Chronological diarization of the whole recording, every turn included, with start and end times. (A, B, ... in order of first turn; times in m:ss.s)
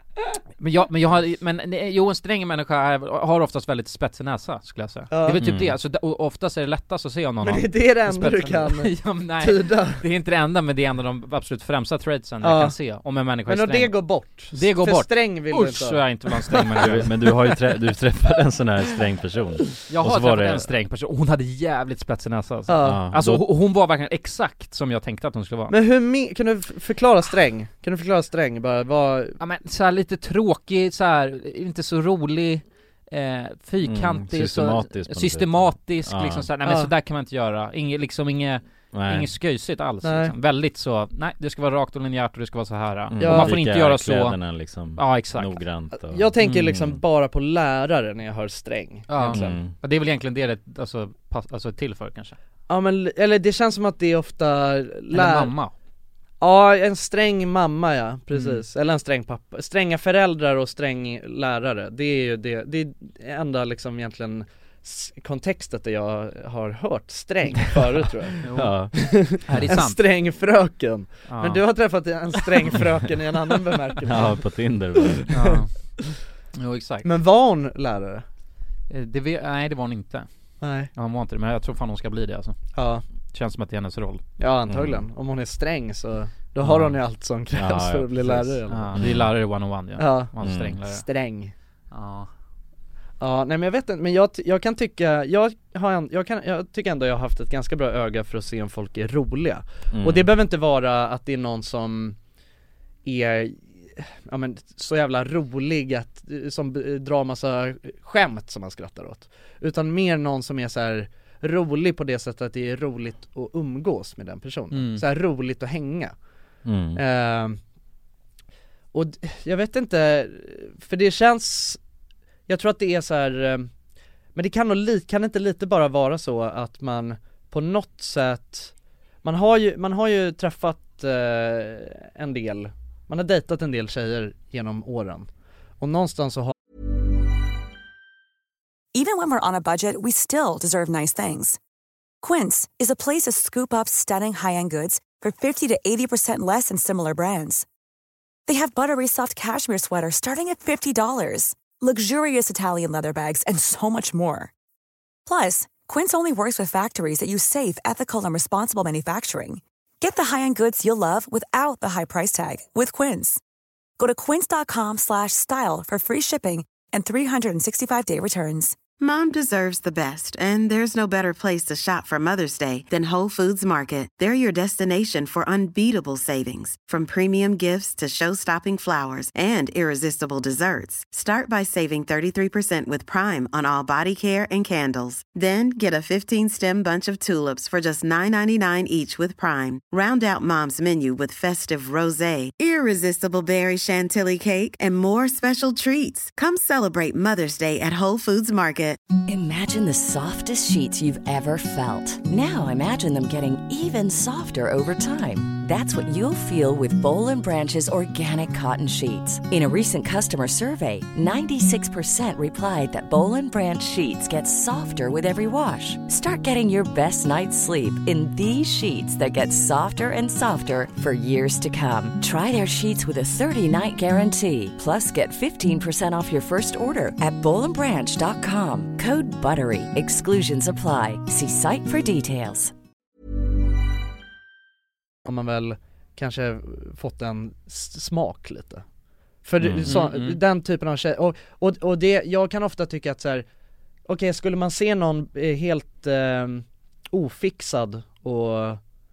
0:00.6-0:17.2 A
0:05.1-0:05.4 B
0:05.4-0:05.8 C
0:07.4-0:10.0 B
0:12.4-0:12.8 B
0:13.4-0:17.0 B
0:16.8-0:20.7 C
0:19.9-0:25.7 A
0:22.7-0:23.1 B
0:22.8-0:23.4 C
0:25.7-0:29.4 B
0:29.4-0:44.4 A
0:33.8-0:36.5 C
0:36.6-0:36.9 B
0:38.9-0:39.3 C
0:40.0-0:40.3 B
0:43.1-0:47.0 C
0:43.2-0:43.6 B
0:44.9-0:45.6 A
0:46.0-0:49.6 B
0:46.4-0:46.7 A
0:49.1-0:52.4 A
0:49.2-0:49.7 C
0:52.7-0:55.5 B
0:55.1-0:55.7 A
0:56.4-1:08.4 B
0:58.3-0:58.6 A
1:08.4-1:10.0 A
1:08.5-1:09.7 C
1:08.9-1:14.4 B
1:11.3-1:11.6 A
1:14.0-1:15.3 C
1:15.1-1:15.6 B
1:15.3-1:15.7 A
1:16.6-1:17.1 A
1:17.0-1:18.2 B
1:18.9-1:20.3 A
1:20.6-1:20.9 B
1:20.9-1:22.6 A
1:22.7-1:23.0 B
1:23.3-1:24.2 A
1:24.4-1:29.0 B
1:24.7-1:25.0 C
1:26.6-1:26.9 A
1:27.5-1:29.3 C
1:28.7-1:31.0 A
1:30.0-1:30.3 B
1:30.4-1:30.8 C
1:30.8-1:31.5 B
1:31.9-1:32.3 A
1:33.2-1:42.2 B
1:39.9-1:40.3 C
1:43.0-1:56.1 B
1:54.7-1:55.0 A
1:56.6-1:57.0 C
1:57.0-1:57.6 B
1:58.9-2:01.8 B
2:02.5-2:03.7 B
2:04.4-2:15.3 B
2:15.8-2:16.5 B
2:18.9-2:21.6 D
2:22.2-2:27.6 D
2:28.5-2:34.5 D
2:35.3-2:43.4 D
2:44.0-2:48.8 D
2:49.0-3:19.0 E
3:19.2-3:52.7 F
3:55.2-3:58.8 B
3:59.4-4:03.4 B
3:59.6-3:59.9 C
3:59.9-4:00.4 A
4:04.1-4:08.8 B